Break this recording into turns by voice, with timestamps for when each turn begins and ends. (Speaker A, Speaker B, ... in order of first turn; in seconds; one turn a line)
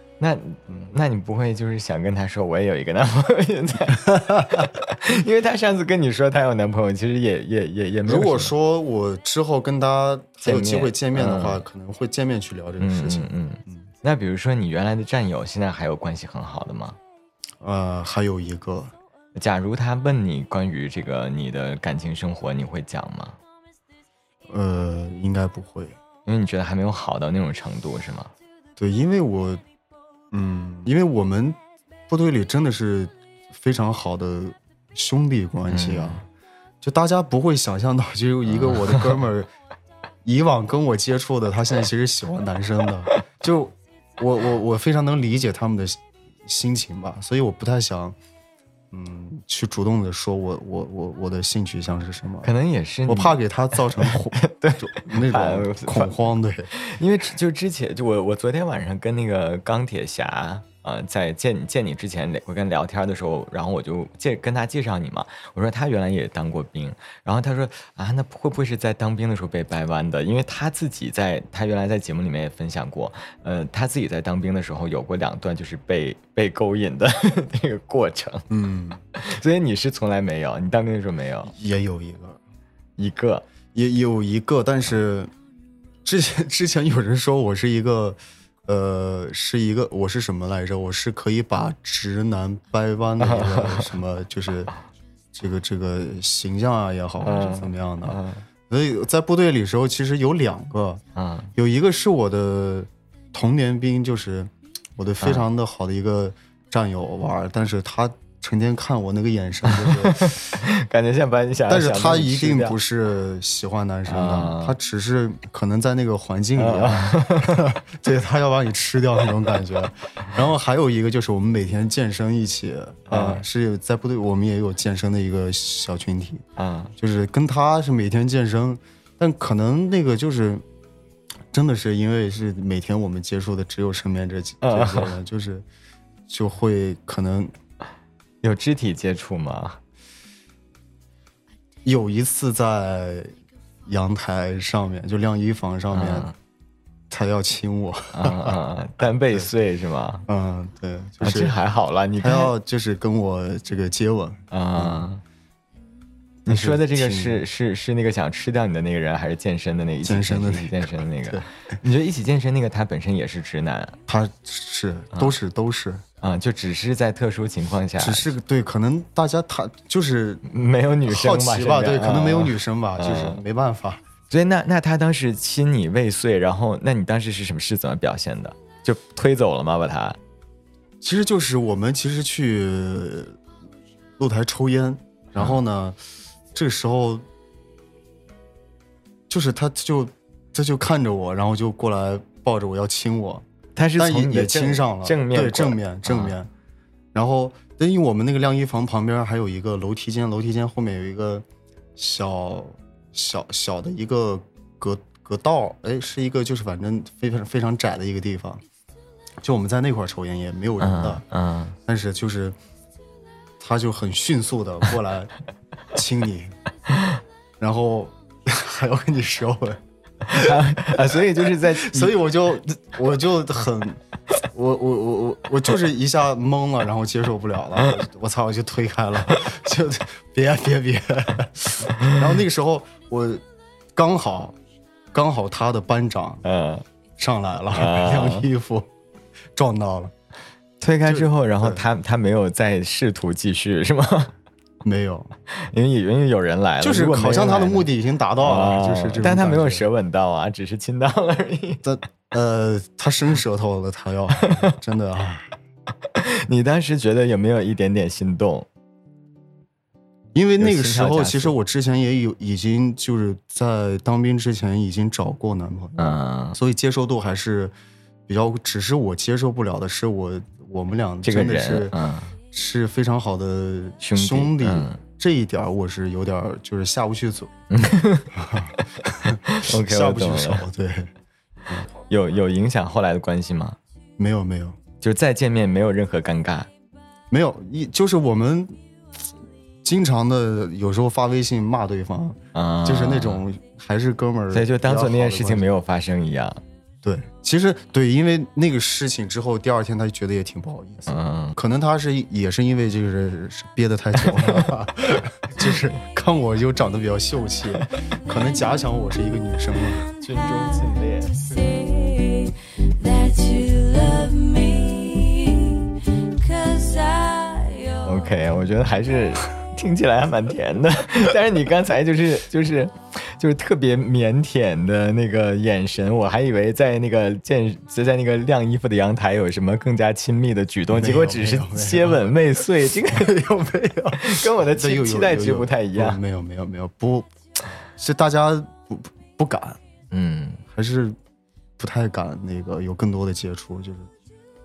Speaker A: 0.2-8.5
Speaker B: 4.1-4.7
Speaker B: 8.0-13.9
Speaker A: 10.4-11.6
Speaker A: 12.8-17.0
Speaker B: 17.6-18.9
Speaker A: 19.3-23.4
Speaker B: 24.5-25.9
Speaker A: 26.2-28.3
Speaker B: 28.8-29.6
Speaker B: 30.3-31.6
Speaker B: 32.1-36.3
Speaker A: 35.7-36.2
Speaker B: 36.8-39.5
Speaker A: 38.5-39.0
Speaker B: 40.2-48.1
Speaker B: 48.9-52.5
Speaker A: 52.4-56.2
Speaker B: 53.1-56.7
Speaker A: 56.7-78.5
Speaker B: 78.5-79.0
Speaker A: 79.1-81.5
Speaker B: 81.5-82.4
Speaker A: 83.0-83.4
Speaker B: 83.7-85.3
Speaker B: 86.0-94.7
Speaker A: 93.2-93.8
Speaker B: 95.3-101.0
Speaker A: 97.2-98.5
Speaker A: 101.1-101.5
Speaker B: 101.5-110.6
Speaker A: 105.2-105.5
Speaker A: 109.7-112.8
Speaker B: 111.7-126.4
Speaker A: 114.0-114.8
Speaker A: 116.6-117.7
Speaker A: 123.1-123.4
Speaker A: 126.6-126.9
Speaker B: 127.0-130.6
Speaker B: 131.5-135.7
Speaker A: 134.6-135.1
Speaker B: 136.3-137.5
Speaker A: 138.4-139.8
Speaker B: 141.8-143.3
Speaker B: 143.8-146.3
Speaker A: 145.9-146.3
Speaker B: 147.1-148.6
Speaker A: 148.1-150.2
Speaker B: 150.3-151.6
Speaker A: 151.2-152.5
Speaker B: 152.2-155.1
Speaker A: 154.5-155.2
Speaker B: 156.4-157.4
Speaker A: 156.5-164.0
Speaker B: 160.0-161.8
Speaker B: 164.1-166.0
Speaker A: 166.2-168.3
Speaker B: 168.0-170.4
Speaker A: 170.4-173.4
Speaker B: 171.1-174.0
Speaker A: 174.3-180.2
Speaker B: 181.0-183.4
Speaker B: 184.2-186.0
Speaker B: 186.5-187.2
Speaker B: 189.3-193.4
Speaker A: 193.8-196.3
Speaker B: 194.0-196.5
Speaker B: 197.1-201.4
Speaker B: 201.9-208.6
Speaker B: 209.4-211.2
Speaker A: 210.8-211.8
Speaker B: 211.8-212.6
Speaker B: 213.6-215.3
Speaker B: 215.9-216.5
Speaker B: 217.6-233.4
Speaker A: 220.3-222.1
Speaker B: 233.9-234.6
Speaker B: 235.1-236.4
Speaker A: 236.4-236.8
Speaker B: 237.2-238.9
Speaker A: 237.7-238.5
Speaker B: 239.5-240.1
Speaker A: 240.8-244.3
Speaker B: 241.0-241.8
Speaker B: 244.8-245.3
Speaker A: 245.5-247.9
Speaker B: 246.8-249.8
Speaker A: 248.4-251.8
Speaker B: 251.8-255.6
Speaker A: 256.1-258.7
Speaker B: 260.3-267.7
Speaker A: 260.6-261.5
Speaker A: 266.0-266.6
Speaker B: 268.3-271.9
Speaker A: 271.2-272.3
Speaker B: 272.5-277.5
Speaker A: 274.0-275.0
Speaker A: 277.7-278.8
Speaker B: 278.3-281.1
Speaker A: 279.5-280.6
Speaker A: 282.1-283.8
Speaker B: 284.2-284.8
Speaker A: 285.0-286.7
Speaker B: 287.3-288.8
Speaker B: 289.8-295.6
Speaker A: 292.5-293.4
Speaker A: 294.5-296.6
Speaker B: 297.0-310.1
Speaker A: 301.1-301.6
Speaker A: 304.4-304.7
Speaker C: 308.3-308.7
Speaker C: 309.8-318.7
Speaker A: 310.2-311.3
Speaker A: 318.0-333.3
Speaker B: 330.9-332.3
Speaker B: 333.0-337.3
Speaker A: 334.1-336.2
Speaker B: 337.9-339.8
Speaker A: 340.1-340.6
Speaker B: 340.7-341.2
Speaker B: 341.8-344.1